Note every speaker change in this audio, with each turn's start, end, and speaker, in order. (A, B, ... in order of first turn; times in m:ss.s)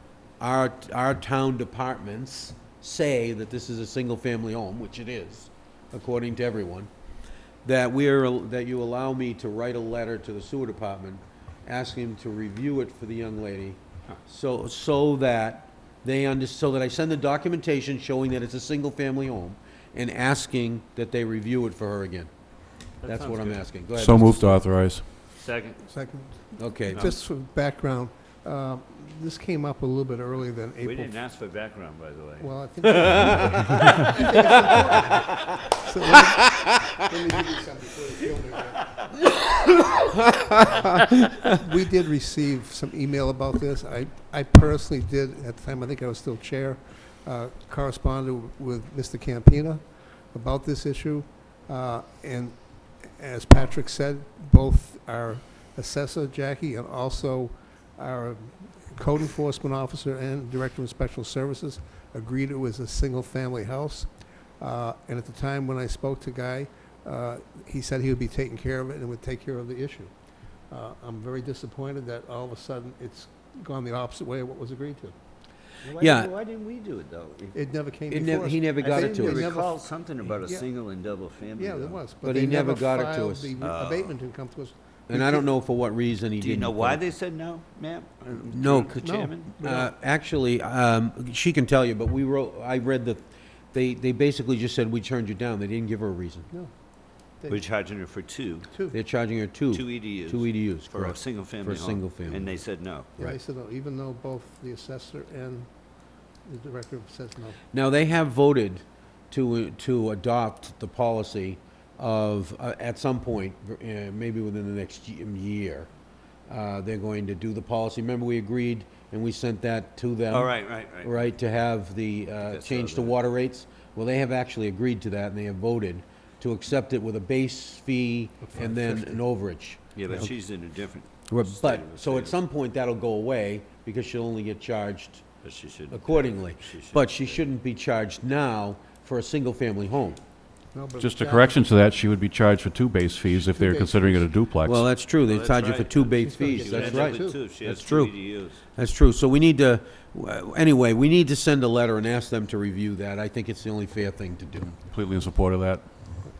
0:00.4-0:06.9 A
0:07.6-0:22.3 A
0:23.0-0:23.6 B
0:23.0-0:24.5 A
0:23.9-0:25.0 C
0:25.4-0:25.8 B
0:25.8-0:31.2 D
0:26.6-0:27.1 A
0:30.8-0:33.1 B
0:32.4-0:38.9 D
0:39.6-0:41.3 A
0:41.5-0:52.6 D
0:53.1-1:10.1 D
1:10.7-1:15.1 D
1:15.8-1:17.6 B
1:16.0-1:16.3 A
1:17.5-1:19.8 D
1:18.1-1:19.5 A
1:18.8-1:22.0 B
1:21.6-1:25.5 D
1:22.2-1:23.5 A
1:23.6-1:24.2 B
1:25.1-1:27.1 A
1:26.4-1:29.5 B
1:28.4-1:36.5 A
1:29.0-1:29.9 D
1:37.5-1:38.7 B
1:38.7-1:39.0 D
1:38.9-1:42.5 A
1:39.7-1:43.1 B
1:43.2-1:45.7 D
1:46.4-1:47.6 D
1:47.7-1:55.9 A
1:56.5-2:10.3 A
2:00.3-2:01.1 B
2:02.4-2:03.2 B
2:08.4-2:09.2 D
2:10.0-2:12.4 B
2:11.3-2:15.2 A
2:15.4-2:17.4 B
2:15.9-2:20.2 A
2:20.7-2:21.6 D
2:21.0-2:24.8 C
2:23.5-2:24.3 D
2:24.6-2:34.7 A
2:25.2-2:28.6 B
2:26.1-2:27.4 D
2:34.7-2:35.9 C